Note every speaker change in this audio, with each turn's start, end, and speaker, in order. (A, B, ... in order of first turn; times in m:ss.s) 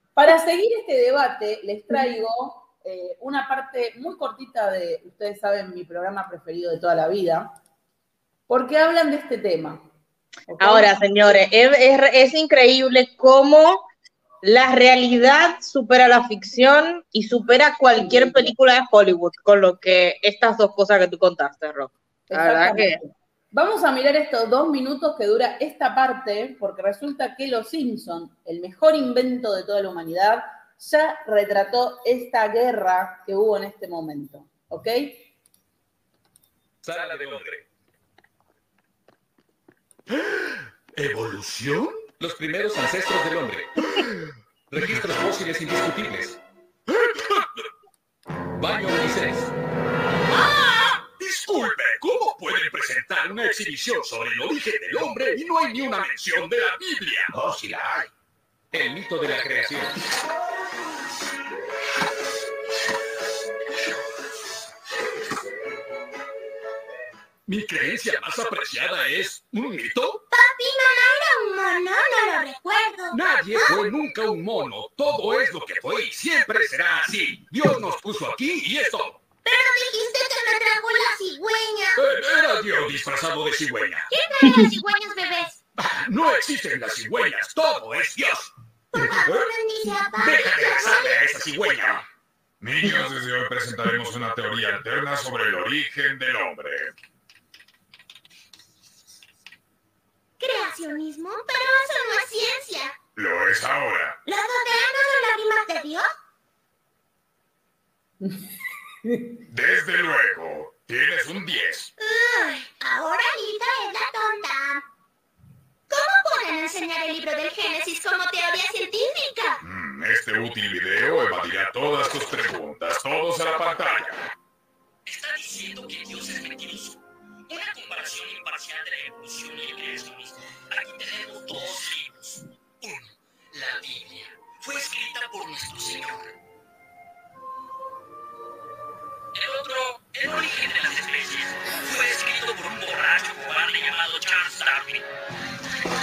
0:00.2-0:07.5 A
0:08.5-0:09.8 A
0:10.5-0:10.9 A
0:10.6-0:13.8 B
0:14.4-0:23.0 B
0:18.0-0:18.5 A
0:22.3-0:35.3 A
0:36.8-0:37.6 C
0:40.9-0:44.1 C
0:44.7-0:47.6 C
0:48.6-0:49.5 C
0:50.3-0:58.1 C
0:58.7-1:00.0 C
1:07.4-1:10.2 C
1:10.3-1:13.8 D
1:13.1-1:19.2 C
1:19.4-1:22.0 D
1:22.0-1:24.0 C
1:24.1-1:25.6 D
1:25.8-1:29.5 C
1:28.9-1:31.1 D
1:30.2-1:32.0 C
1:32.6-1:36.9 E
1:40.4-1:42.9 D
1:43.2-1:44.2 E
1:44.2-1:46.1 D
1:48.2-1:48.5 A
1:49.0-1:49.3 A
1:49.5-1:51.9 E
1:52.0-1:54.8 D
1:55.9-1:59.6 D
1:59.6-2:04.2 E
2:05.1-2:07.0 C
2:07.5-2:12.2 C
2:12.8-2:16.2 C
2:19.3-2:25.0 C